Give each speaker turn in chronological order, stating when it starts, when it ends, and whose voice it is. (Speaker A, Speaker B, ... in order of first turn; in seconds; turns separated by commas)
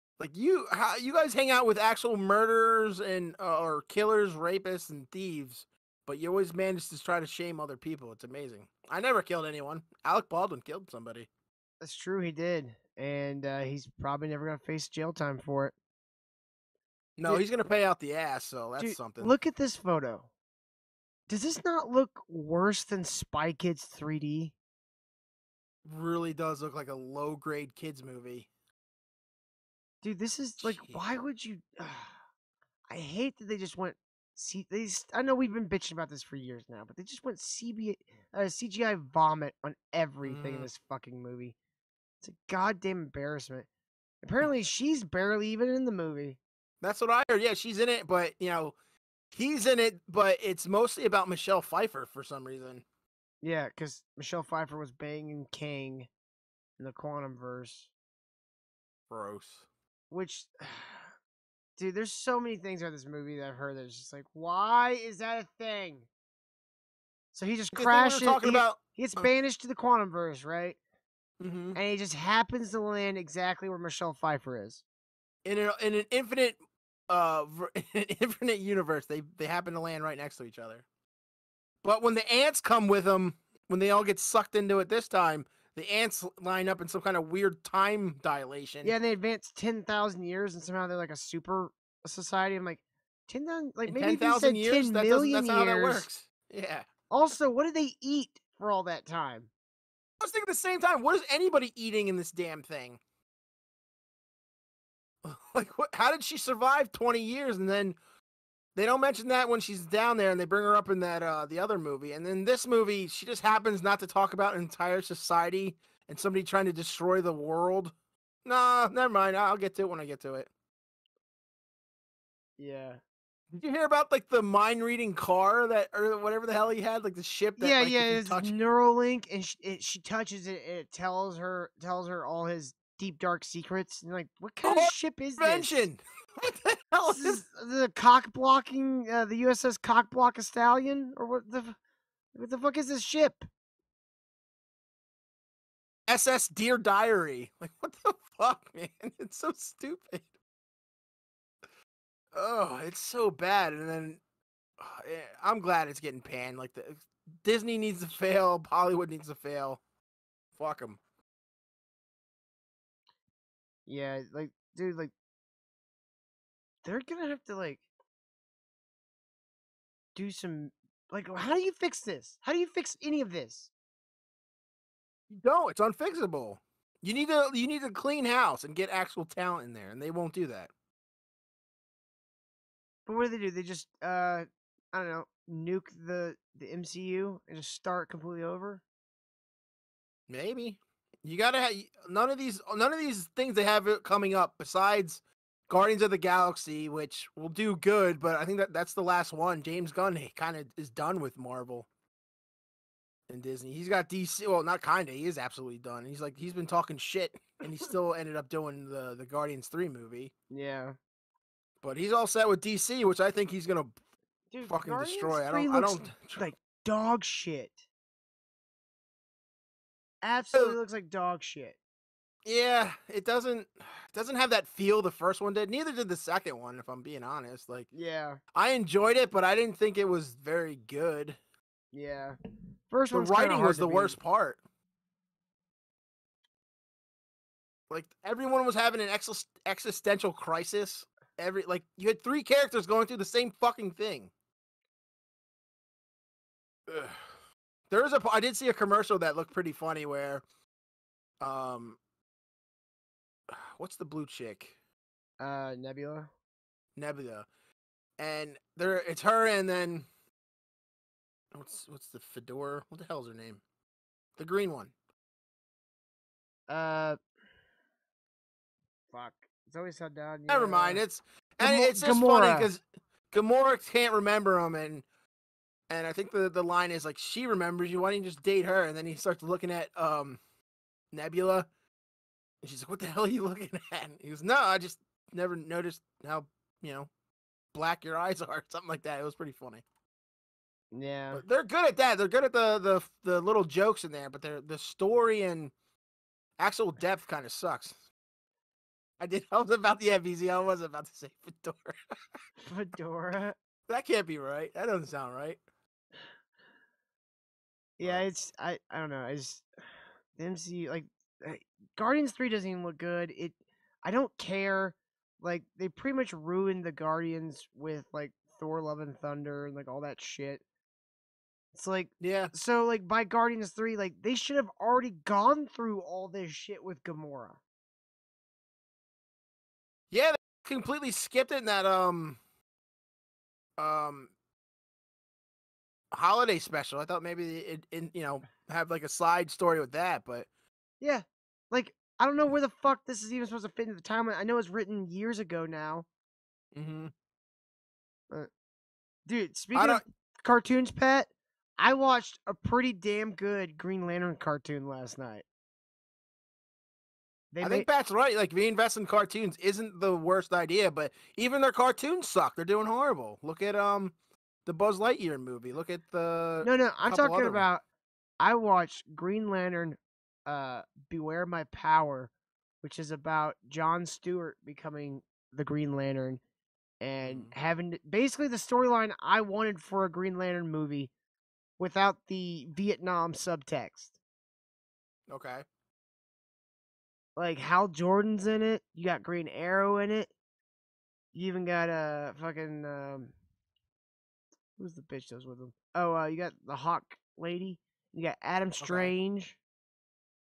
Speaker A: 0.2-11.3, Speaker B: 11.8-15.8, Speaker A: 17.2-19.3, Speaker B: 18.8-20.3, Speaker B: 21.3-24.5, Speaker A: 25.9-28.5, Speaker B: 30.0-32.2, Speaker A: 30.6-31.0, Speaker B: 32.9-41.5, Speaker A: 40.2-40.7, Speaker B: 42.2-43.7, Speaker B: 44.2-46.4, Speaker A: 46.8-48.8, Speaker A: 49.3-52.8, Speaker B: 53.4-56.1, Speaker B: 56.8-57.9, Speaker A: 59.1-59.7, Speaker B: 60.1-61.1, Speaker B: 61.8-66.1, Speaker B: 67.3-70.8, Speaker A: 67.7-69.3, Speaker A: 71.4-71.8, Speaker B: 71.8-74.8, Speaker A: 75.5-80.8, Speaker A: 81.8-89.0, Speaker B: 88.8-96.1, Speaker A: 93.9-96.9, Speaker B: 97.1-99.5, Speaker A: 100.2-103.0, Speaker A: 105.2-108.0, Speaker A: 108.8-117.9, Speaker A: 118.5-120.5, Speaker B: 122.6-123.0, Speaker A: 123.5-128.5, Speaker B: 127.6-135.9, Speaker A: 134.6-137.4, Speaker B: 137.0-141.8, Speaker B: 142.3-143.5, Speaker A: 146.1-150.3, Speaker A: 152.3-154.2, Speaker A: 154.8-159.8, Speaker A: 160.6-161.0, Speaker B: 163.9-165.1, Speaker B: 166.8-167.8, Speaker B: 170.1-173.7, Speaker A: 175.3-180.7, Speaker B: 183.1-188.8, Speaker A: 190.3-201.9, Speaker A: 203.3-210.3, Speaker B: 210.5-211.0, Speaker A: 211.8-214.0, Speaker B: 214.5-217.9, Speaker A: 214.6-216.4, Speaker B: 220.2-221.8, Speaker A: 222.4-227.9, Speaker B: 227.9-228.4, Speaker A: 228.5-231.4, Speaker B: 231.9-232.4, Speaker B: 232.9-234.2, Speaker A: 233.1-234.6, Speaker A: 237.9-244.3, Speaker A: 246.9-247.2, Speaker A: 247.9-250.4, Speaker A: 251.4-252.0, Speaker A: 253.5-254.8, Speaker B: 255.4-256.3, Speaker A: 257.0-257.5, Speaker A: 258.2-260.1, Speaker A: 261.5-263.6, Speaker A: 264.4-264.9, Speaker B: 266.7-267.2, Speaker B: 269.1-271.0, Speaker A: 270.5-275.0, Speaker B: 271.6-272.7, Speaker A: 275.9-280.4, Speaker A: 281.1-281.7, Speaker A: 282.6-287.1, Speaker A: 287.7-289.8, Speaker B: 290.9-291.4, Speaker A: 291.3-295.7, Speaker A: 296.6-298.0, Speaker A: 299.2-301.9, Speaker B: 302.6-303.6, Speaker A: 303.9-305.6, Speaker B: 308.0-309.7, Speaker B: 310.4-320.6, Speaker B: 321.7-327.6, Speaker A: 322.2-322.5, Speaker A: 330.1-332.4, Speaker A: 333.8-334.3, Speaker A: 336.1-340.5, Speaker B: 341.0-346.1, Speaker A: 346.8-347.1, Speaker B: 349.2-355.4, Speaker A: 349.7-350.0, Speaker B: 357.5-357.9, Speaker A: 357.6-364.1, Speaker A: 364.6-367.7, Speaker B: 366.6-367.8, Speaker B: 368.4-372.3, Speaker B: 372.8-376.4, Speaker B: 377.0-381.1, Speaker A: 377.2-377.5, Speaker B: 381.8-384.1, Speaker A: 385.3-385.6, Speaker B: 387.4-390.3, Speaker B: 391.3-393.3, Speaker B: 394.8-399.6, Speaker A: 398.8-399.1